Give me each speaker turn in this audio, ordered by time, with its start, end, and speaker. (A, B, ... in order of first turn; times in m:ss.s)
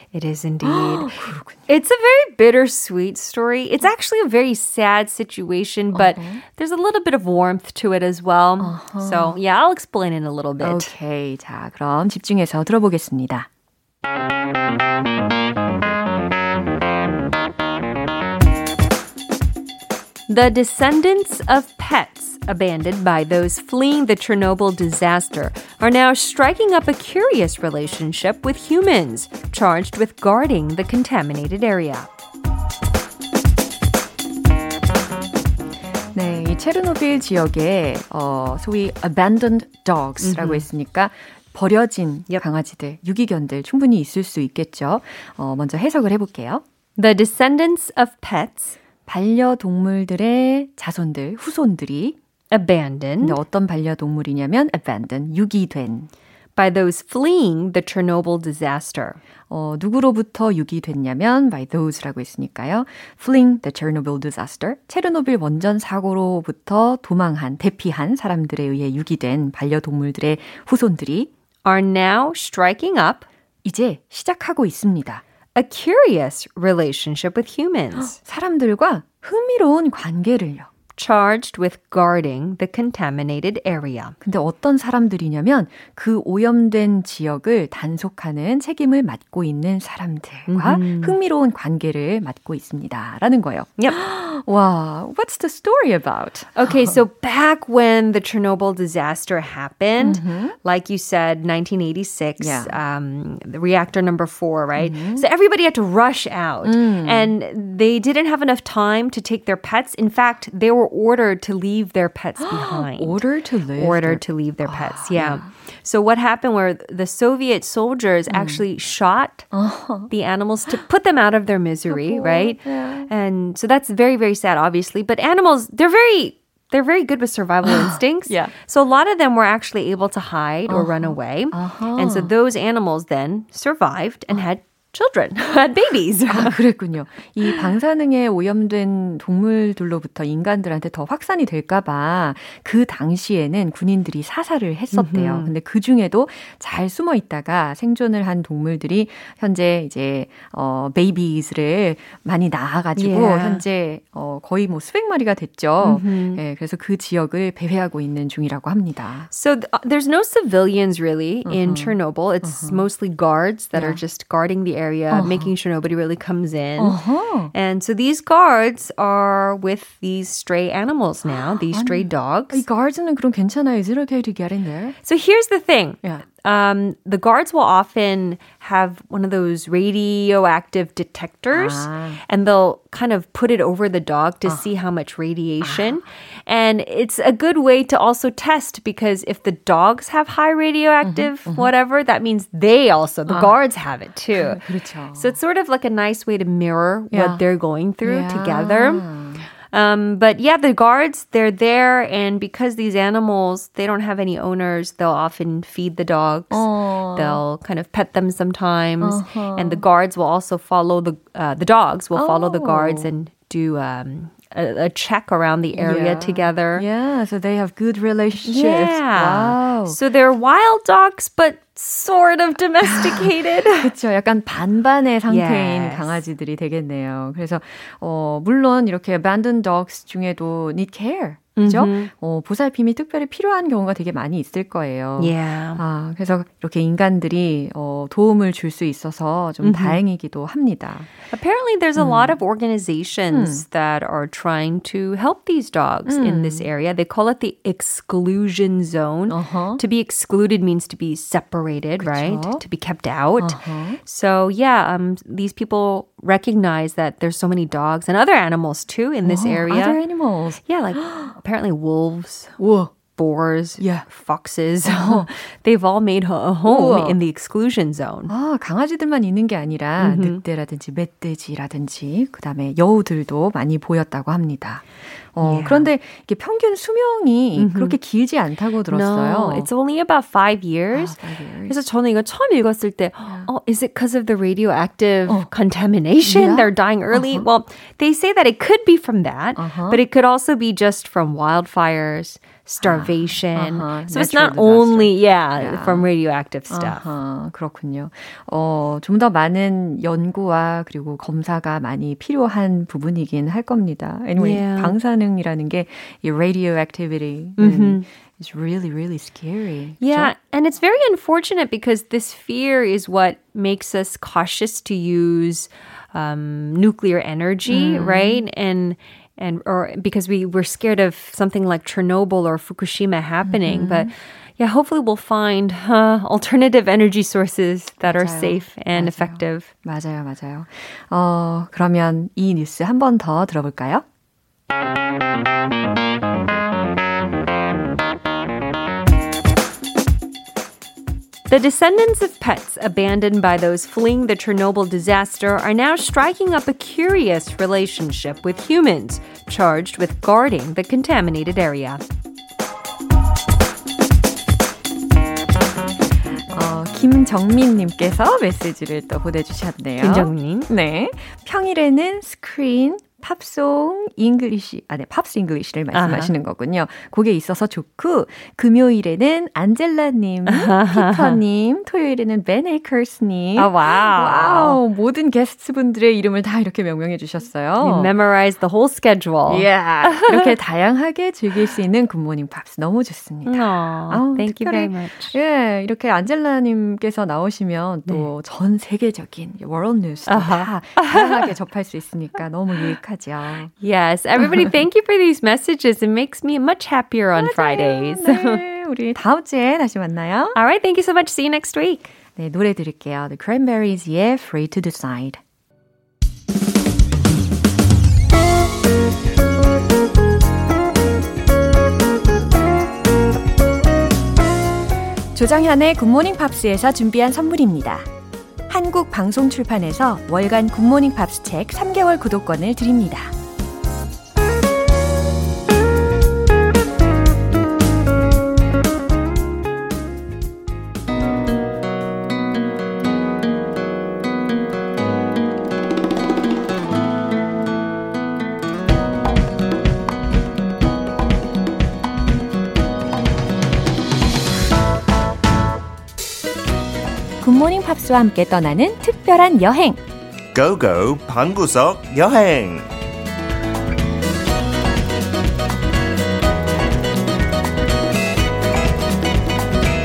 0:00.1-0:01.1 A
0:00.6-0:01.7 B
0:01.7-0:10.9 A
0:05.9-0:06.4 B
0:08.6-0:09.4 B
0:10.6-0:13.5 B
0:20.3-0:32.1 A
0:36.1-0:46.6 B
0:40.2-0:40.7 A
0:47.0-0:48.8 A
0:49.0-0:52.2 B
0:52.5-0:53.4 A
0:53.2-0:56.1 B
0:56.6-0:59.2 A
0:59.5-1:11.3 B
1:11.6-1:13.3 A
1:13.6-1:15.2 B
1:15.5-1:18.2 A
1:18.0-1:20.7 B
1:21.0-1:24.2 A
1:24.2-1:36.7 B
1:30.5-1:31.2 A
1:36.5-1:53.2 A
1:40.0-1:40.6 B
1:42.4-1:42.7 B
1:44.8-1:45.2 B
1:46.6-1:47.3 B
1:52.4-1:55.5 B
1:53.8-1:59.5 A
1:58.3-1:58.6 B
1:59.5-2:00.1 B
2:00.1-2:16.6 A
2:01.9-2:03.1 B
2:07.6-2:08.5 B
2:10.7-2:12.3 B
2:16.3-2:39.3 B
2:24.9-2:25.5 A
2:33.0-2:33.6 A
2:35.8-2:36.4 A
2:39.3-2:47.0 A
2:41.4-2:42.9 B
2:43.7-2:44.0 B
2:45.1-2:45.5 B
2:46.8-2:47.5 B
2:47.5-2:52.6 A
2:51.7-2:55.0 B
2:55.0-3:14.6 A
3:01.5-3:02.2 B
3:05.6-3:06.0 B
3:11.0-3:11.7 B
3:13.3-3:13.6 B
3:14.3-3:15.4 B
3:15.1-3:19.1 A
3:17.1-3:17.4 B
3:18.0-3:19.4 B
3:19.7-3:36.8 A
3:26.5-3:27.4 B
3:29.0-3:29.8 B
3:32.1-3:33.1 B
3:35.7-3:40.0 B
3:38.4-3:43.9 A
3:42.8-4:01.1 B
3:45.3-3:46.2 A
3:51.6-3:52.1 A
3:55.2-3:55.8 A
3:59.6-4:00.0 A
4:01.3-4:20.0 A
4:02.0-4:02.4 B
4:03.3-4:03.6 B
4:06.0-4:06.7 B
4:09.3-4:09.8 B
4:12.0-4:12.6 B
4:13.4-4:14.0 B
4:19.2-4:21.3 B
4:20.6-4:22.6 A
4:22.6-4:22.9 B
4:23.1-4:28.3 A
4:23.8-4:24.1 B
4:24.8-4:25.3 B
4:26.6-4:27.2 B
4:28.3-4:39.7 B
4:30.0-4:30.4 A
4:35.4-4:35.9 A
4:37.6-4:38.0 A
4:38.9-4:57.0 A
4:40.9-4:41.8 B
4:46.2-4:47.5 B
4:49.6-4:50.0 B
4:52.8-4:56.1 B
4:56.7-5:10.3 B
5:04.4-5:05.0 A
5:07.6-5:08.0 A
5:10.0-5:29.7 A
5:17.7-5:18.4 B
5:23.4-5:24.1 B
5:28.0-5:34.0 B
5:41.5-5:52.0 A
5:56.5-6:18.1 B
6:00.0-6:00.7 A
6:05.9-6:06.3 A
6:10.4-6:11.4 A
6:13.6-6:14.8 A
6:17.8-6:20.5 A
6:19.5-6:33.7 B
6:23.4-6:25.4 A
6:30.3-6:31.5 A
6:33.8-6:38.6 A
6:34.4-6:34.7 B
6:37.3-6:40.6 B
6:40.5-6:42.1 A
6:42.3-6:45.4 B
6:55.3-6:58.1 B
6:58.7-7:03.3 B
7:27.4-7:30.0 B
7:30.5-7:32.9 C